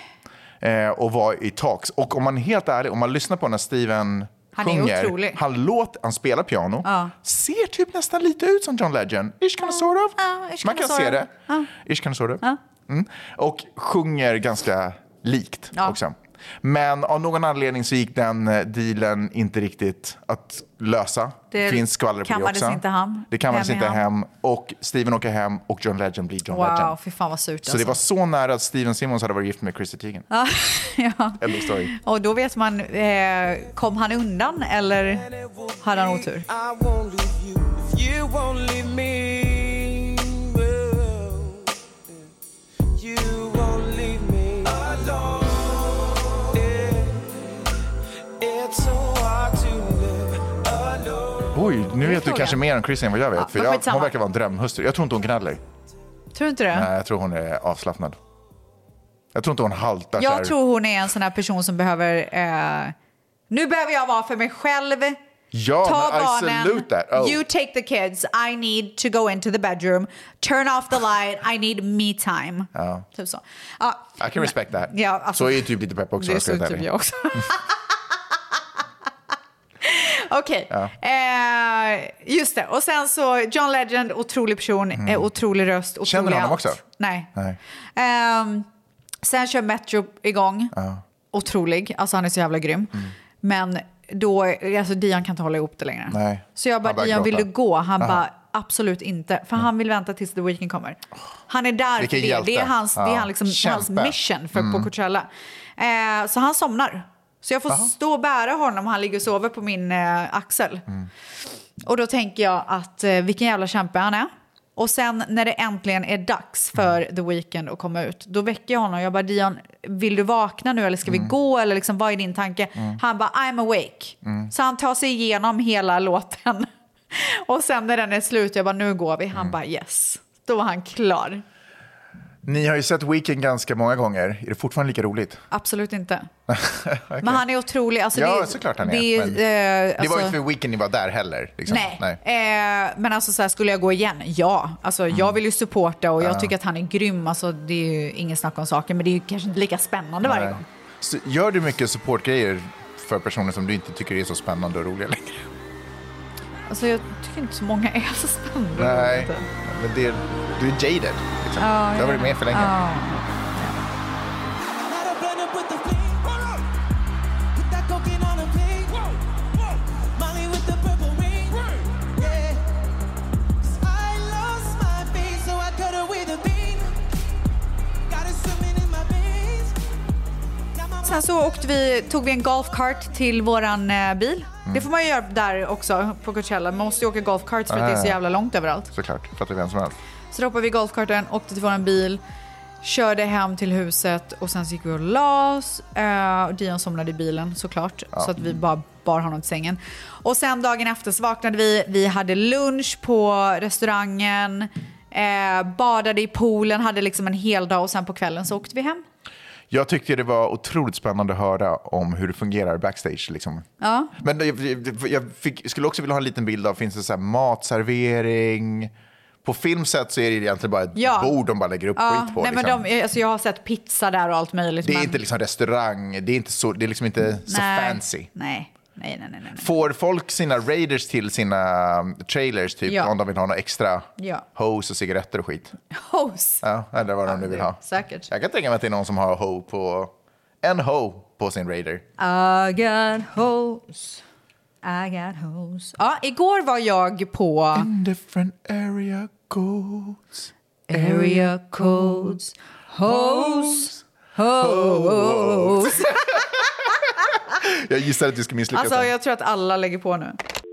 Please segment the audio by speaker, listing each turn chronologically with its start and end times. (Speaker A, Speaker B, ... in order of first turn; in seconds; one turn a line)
Speaker A: 0.6-26.9
Speaker B: 4.5-5.4
Speaker B: 6.8-7.1
Speaker B: 10.2-11.7
Speaker B: 15.7-16.0
Speaker B: 21.5-24.0
Speaker B: 26.5-28.0
Speaker A: 27.6-30.2
Speaker B: 30.3-36.5
Speaker A: 31.4-31.9
Speaker C: 36.5-41.5
Speaker C: 43.0-47.2
Speaker C: 48.4-51.4
Speaker A: 51.5-55.6
Speaker B: 52.0-52.6
Speaker B: 53.4-54.1
Speaker B: 56.3-56.9
Speaker A: 56.7-58.2
Speaker A: 59.3-60.5
Speaker B: 60.2-62.9
Speaker B: 63.5-65.2
Speaker A: 65.5-67.4
Speaker B: 65.8-77.7
Speaker A: 72.7-73.0
Speaker A: 74.2-76.9
Speaker B: 79.8-87.3
Speaker A: 85.0-85.2
Speaker A: 86.0-86.8
Speaker B: 88.0-88.7
Speaker B: 89.2-90.7
Speaker A: 90.7-91.0
Speaker B: 91.3-110.9
Speaker A: 96.1-97.5
Speaker A: 102.0-104.9
Speaker B: 111.8-131.4
Speaker A: 121.1-121.3
Speaker A: 124.2-124.5
Speaker A: 132.4-135.4
Speaker B: 135.5-136.3
Speaker A: 136.5-137.4
Speaker B: 137.2-140.4
Speaker A: 138.1-139.4
Speaker A: 139.9-142.2
Speaker B: 141.7-150.6
Speaker A: 146.2-146.5
Speaker A: 150.2-155.5
Speaker B: 156.7-159.4
Speaker A: 158.8-162.8
Speaker B: 161.6-163.8
Speaker C: 164.9-166.2
Speaker C: 167.6-168.9
Speaker C: 170.2-171.6
Speaker C: 173.8-176.9
Speaker C: 178.1-179.7
Speaker B: 181.0-188.9
Speaker A: 187.7-188.2
Speaker A: 188.9-190.0
Speaker B: 190.3-192.2
Speaker B: 192.8-209.0
Speaker A: 198.1-198.5
Speaker A: 209.7-213.6
Speaker B: 213.8-214.1
Speaker A: 214.2-218.9
Speaker A: 219.4-222.8
Speaker B: 220.9-221.4
Speaker B: 221.9-225.2
Speaker A: 224.8-228.3
Speaker B: 227.5-229.7
Speaker A: 229.6-235.8
Speaker B: 232.9-233.1
Speaker B: 234.2-234.4
Speaker B: 235.9-236.6
Speaker A: 236.6-242.0
Speaker B: 237.2-238.3
Speaker B: 242.2-244.2
Speaker B: 244.8-247.9
Speaker A: 247.7-252.4
Speaker B: 250.9-256.5
Speaker A: 253.0-254.0
Speaker A: 254.6-256.5
Speaker A: 257.5-259.1
Speaker B: 258.7-260.4